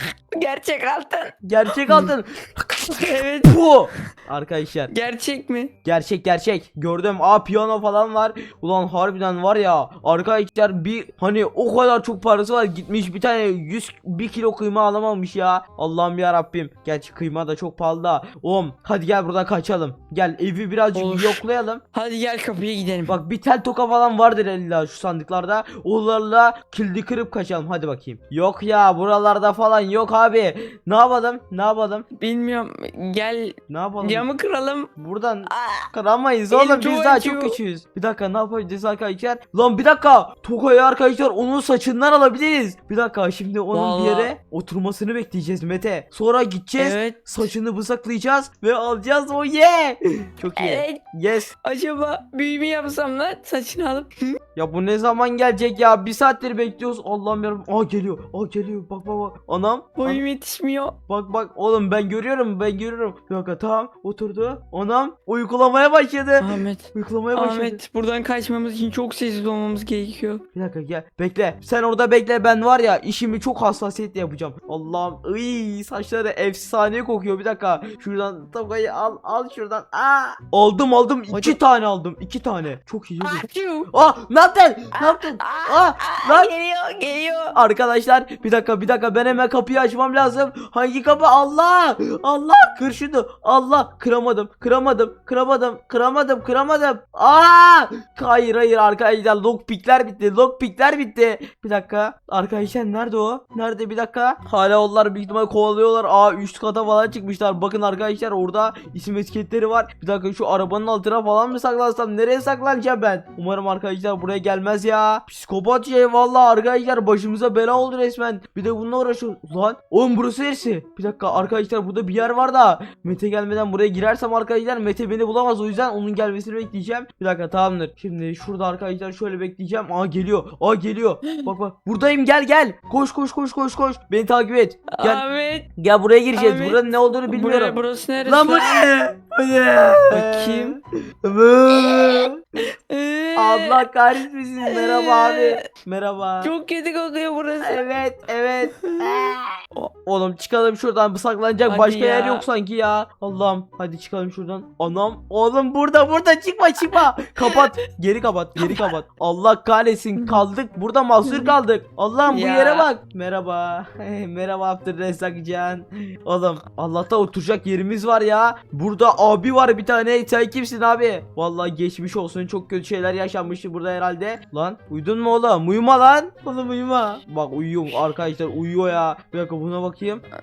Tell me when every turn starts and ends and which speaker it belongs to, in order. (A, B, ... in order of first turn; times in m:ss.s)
0:00.3-0:02.1 A
0:01.4-0:04.9 B
0:02.9-0:03.6 A
0:04.9-0:05.7 A
0:05.8-0:21.8 B
0:20.9-0:23.2 A
0:23.1-0:32.1 B
0:32.2-0:34.9 A
0:33.7-0:34.3 B
0:35.0-0:51.5 B
0:35.5-0:35.9 A
0:36.5-0:37.6 A
0:43.7-0:44.3 A
0:46.8-0:47.4 A
0:50.6-0:54.4 A
0:54.6-1:00.2 B
1:00.0-1:01.0 A
1:01.1-1:07.8 B
1:06.4-1:10.4 A
1:10.6-1:26.5 B
1:21.3-1:21.6 A
1:23.2-1:23.9 A
1:25.0-1:27.6 A
1:27.5-2:15.2 B
2:14.9-2:15.7 A
2:15.8-2:22.4 B
2:16.4-2:18.9 A
2:20.1-2:20.8 A
2:21.7-2:23.8 A
2:23.4-2:26.5 B
2:24.6-2:25.6 A
2:26.4-2:27.8 A
2:27.6-2:29.5 B
2:28.7-2:29.9 A
2:30.1-3:00.2 B
2:31.7-2:32.5 A
2:36.9-2:37.8 A
2:38.6-2:38.9 A
2:41.3-2:41.6 A
2:42.3-2:42.9 A